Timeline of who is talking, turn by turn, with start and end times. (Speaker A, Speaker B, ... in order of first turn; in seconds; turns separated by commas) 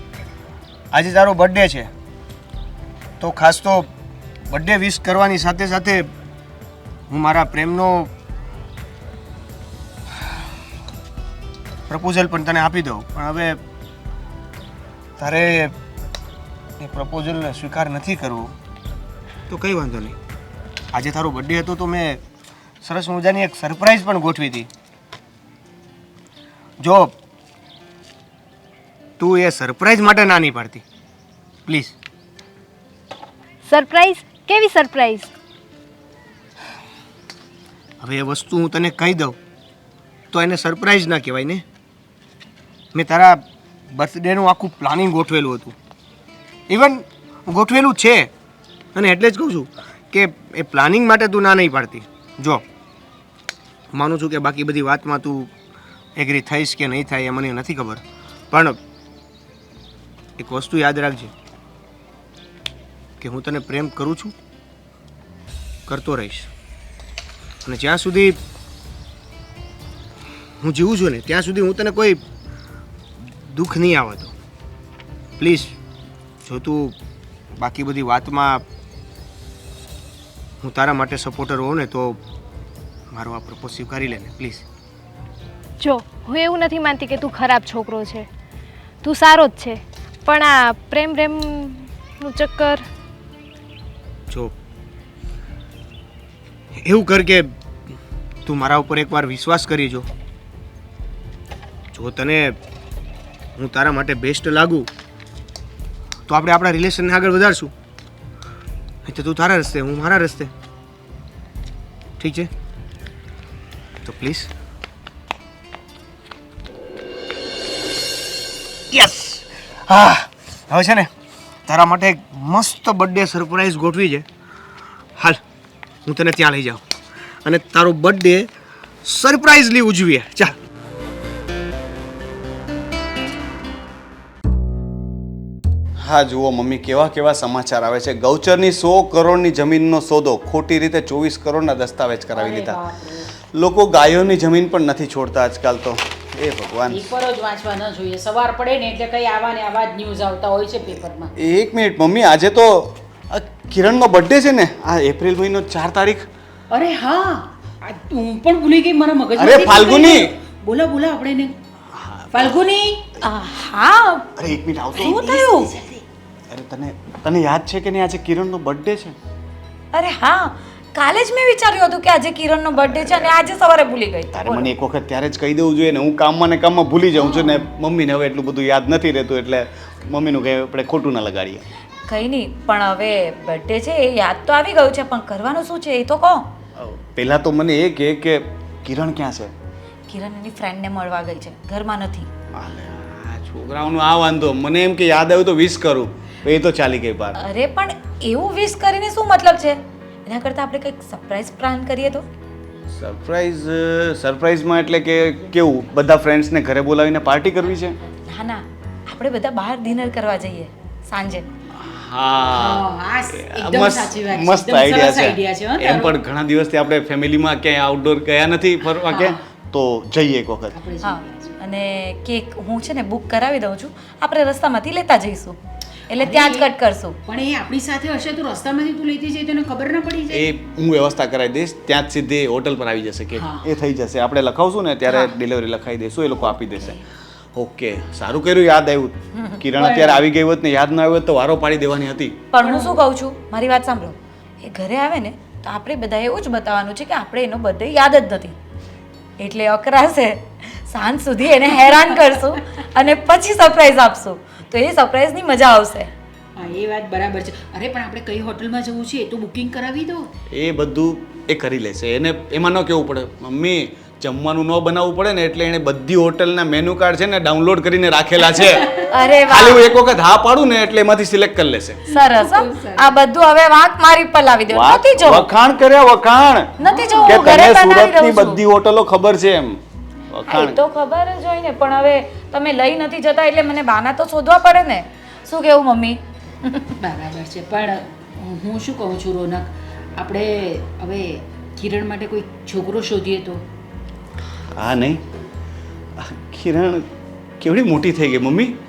Speaker A: 0.9-1.9, Speaker A: 3.2-3.9, Speaker A: 4.5-6.1, Speaker A: 7.1-8.1, Speaker A: 11.9-13.6, Speaker A: 15.2-15.8, Speaker A: 16.8-18.6, Speaker A: 19.5-20.2, Speaker A: 20.9-22.2, Speaker A: 22.8-24.7, Speaker A: 26.8-27.1, Speaker A: 29.2-30.8, Speaker A: 31.7-31.9, Speaker B: 33.7-35.3, Speaker A: 38.0-39.4, Speaker A: 40.3-41.6, Speaker A: 42.9-45.8, Speaker A: 46.7-48.3, Speaker A: 49.0-52.6, Speaker A: 53.9-55.5, Speaker A: 56.2-58.8, Speaker A: 60.4-61.3, Speaker A: 63.2-64.3, Speaker A: 65.9-66.5, Speaker A: 67.7-68.4, Speaker A: 70.6-72.2, Speaker A: 73.2-74.3, Speaker A: 75.4-75.8, Speaker A: 76.5-77.0, Speaker A: 77.6-78.7, Speaker A: 80.6-82.2, Speaker A: 83.1-84.6, Speaker B: 85.8-88.3, Speaker B: 89.0-92.8, Speaker A: 96.8-97.5, Speaker A: 98.5-100.1, Speaker A: 101.9-102.6, Speaker A: 103.6-104.9, Speaker A: 106.3-107.7, Speaker A: 109.1-110.5, Speaker A: 112.2-112.5, Speaker A: 114.0-114.5, Speaker A: 118.9-121.1, Speaker A: 121.7-124.3, Speaker A: 126.1-126.8, Speaker A: 127.5-128.5, Speaker A: 129.1-130.6, Speaker C: 136.0-142.8, Speaker D: 142.3-143.3, Speaker C: 143.5-147.1, Speaker D: 146.9-151.3, Speaker C: 151.4-156.3, Speaker D: 156.7-161.6, Speaker C: 159.4-160.3, Speaker C: 161.9-162.6, Speaker D: 162.3-163.0, Speaker E: 163.2-164.3, Speaker C: 164.4-165.3, Speaker E: 164.9-165.8, Speaker D: 165.3-166.0, Speaker C: 166.5-169.2, Speaker E: 169.9-174.7, Speaker C: 174.3-181.7, Speaker E: 177.3-177.6, Speaker E: 182.1-186.5, Speaker C: 186.8-189.5, Speaker E: 190.1-192.3, Speaker C: 192.6-197.4, Speaker E: 197.4-202.3, Speaker C: 202.9-208.0, Speaker E: 208.3-211.5, Speaker C: 211.7-220.8, Speaker D: 212.5-216.1, Speaker D: 219.1-219.4, Speaker D: 220.7-221.5, Speaker E: 221.0-227.2, Speaker D: 226.2-226.7, Speaker D: 227.3-230.5, Speaker C: 230.3-237.0, Speaker D: 233.4-233.7, Speaker C: 237.6-242.4, Speaker E: 239.4-239.6, Speaker D: 239.8-240.2, Speaker E: 242.5-248.6, Speaker D: 242.6-243.0, Speaker E: 249.4-256.1, Speaker D: 256.6-260.3, Speaker C: 260.5-272.0, Speaker E: 269.1-269.9, Speaker E: 272.1-275.5, Speaker D: 272.4-273.0, Speaker C: 274.7-280.8, Speaker E: 276.8-278.6, Speaker D: 276.9-277.2, Speaker E: 280.5-287.0, Speaker D: 287.0-293.6, Speaker C: 294.8-295.2, Speaker C: 296.2-297.1, Speaker C: 297.6-298.8